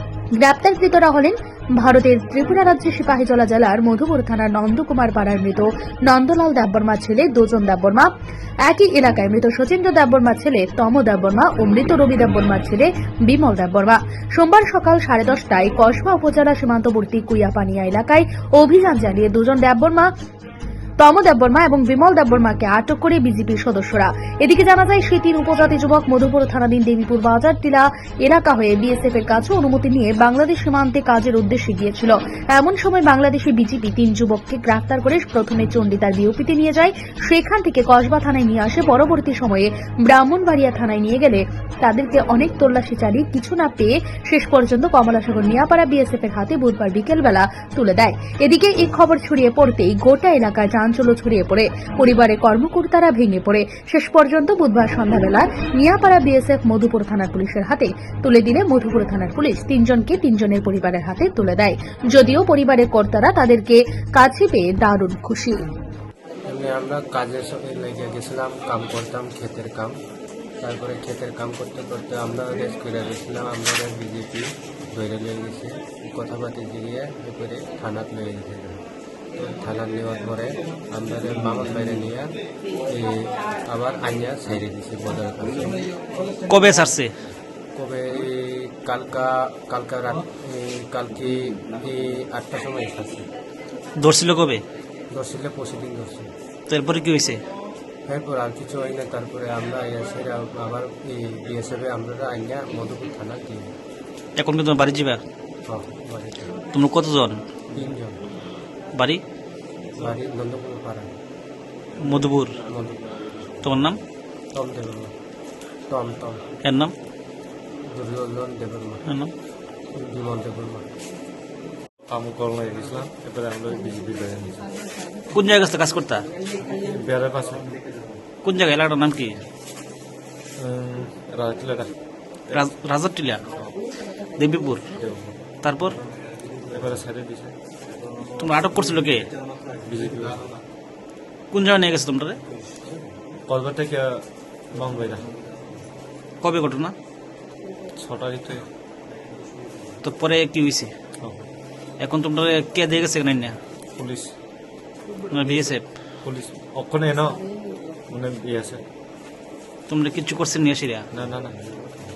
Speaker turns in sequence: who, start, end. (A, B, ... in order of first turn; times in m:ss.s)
0:00.3-0:08.1 A
0:08.6-0:20.1 A
0:21.0-1:05.6 A
1:06.4-1:09.9 B
1:10.6-1:18.8 B
1:19.4-1:22.3 B
1:22.9-1:25.9 B
1:26.4-1:27.1 C
1:27.7-1:33.3 B
1:34.0-1:34.6 C
1:35.1-1:36.3 B
1:36.7-1:37.4 C
1:38.1-1:43.7 B
1:44.4-1:45.2 C
1:45.7-1:46.5 B
1:46.7-1:47.4 C
1:47.7-1:48.2 B
1:48.9-1:49.2 C
1:49.9-1:51.1 B
1:52.0-1:52.6 C
1:52.7-1:53.2 B
1:53.6-1:54.0 C
1:54.5-1:55.1 B
1:55.9-1:56.4 B
1:56.6-1:56.9 C
1:57.9-1:59.0 B
1:59.0-1:59.3 C
1:59.9-2:00.8 B
2:02.1-2:04.7 D
2:05.3-2:06.3 C
2:06.7-2:07.6 D
2:08.4-2:09.4 C
2:10.6-2:11.9 D
2:12.5-2:13.4 C
2:14.4-2:14.8 C
2:14.9-2:15.4 D
2:15.6-2:16.0 C
2:16.7-2:17.5 D
2:18.4-2:19.3 C
2:19.8-2:20.5 D
2:21.5-2:22.4 C
2:23.5-2:25.3 D
2:26.4-2:26.9 C
2:28.0-2:28.6 D
2:30.0-2:30.9 C
2:31.2-2:31.5 D
2:32.0-2:33.6 C
2:34.0-2:34.3 D
2:35.3-2:35.8 C
2:36.2-2:37.4 D
2:38.1-2:38.8 D
2:39.9-2:41.0 C
2:41.1-2:41.6 D